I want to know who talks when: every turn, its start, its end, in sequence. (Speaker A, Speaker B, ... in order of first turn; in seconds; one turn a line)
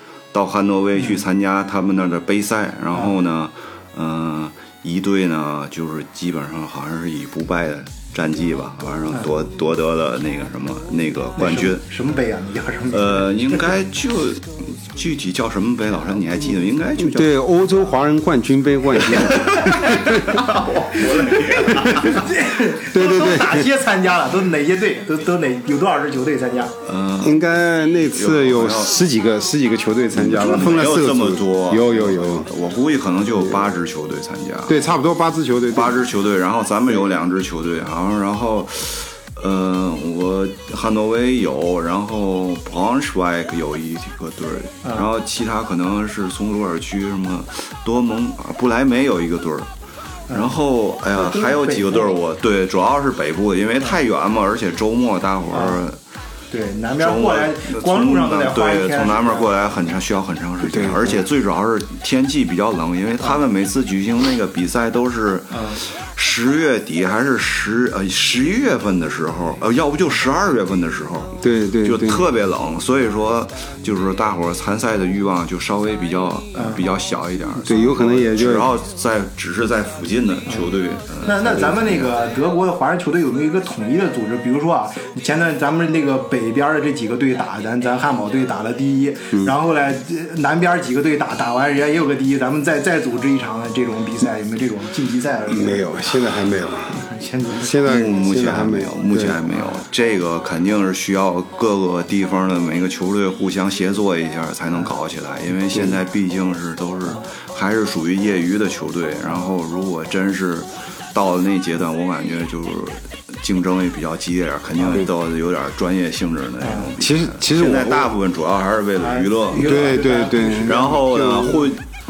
Speaker A: 0.3-11.8
Speaker B: 11.4-13.7
Speaker A: 12.9-17.3
Speaker C: 17.0-20.4
Speaker A: 19.0-22.2
Speaker B: 20.1-26.7
Speaker C: 21.7-22.1
Speaker C: 22.9-23.7
Speaker A: 26.8-27.4
Speaker C: 27.2-32.5
Speaker A: 28.1-29.0
Speaker A: 30.1-34.8
Speaker C: 34.7-36.0
Speaker A: 35.7-49.7
Speaker B: 50.3-50.6
Speaker A: 50.3-56.0
Speaker B: 51.1-52.2
Speaker B: 55.5-55.8
Speaker B: 56.5-59.5
Speaker A: 57.0-82.1
Speaker C: 60.6-61.2
Speaker B: 65.5-65.8
Speaker C: 71.4-72.3
Speaker B: 76.5-76.8
Speaker C: 77.6-78.7
Speaker B: 81.2-95.9
Speaker C: 95.5-99.4
Speaker B: 96.9-97.8
Speaker A: 97.8-119.9
Speaker C: 105.7-106.0
Speaker B: 116.6-116.9
Speaker C: 117.0-118.1
Speaker B: 119.0-120.9
Speaker C: 119.6-121.7
Speaker A: 120.6-121.8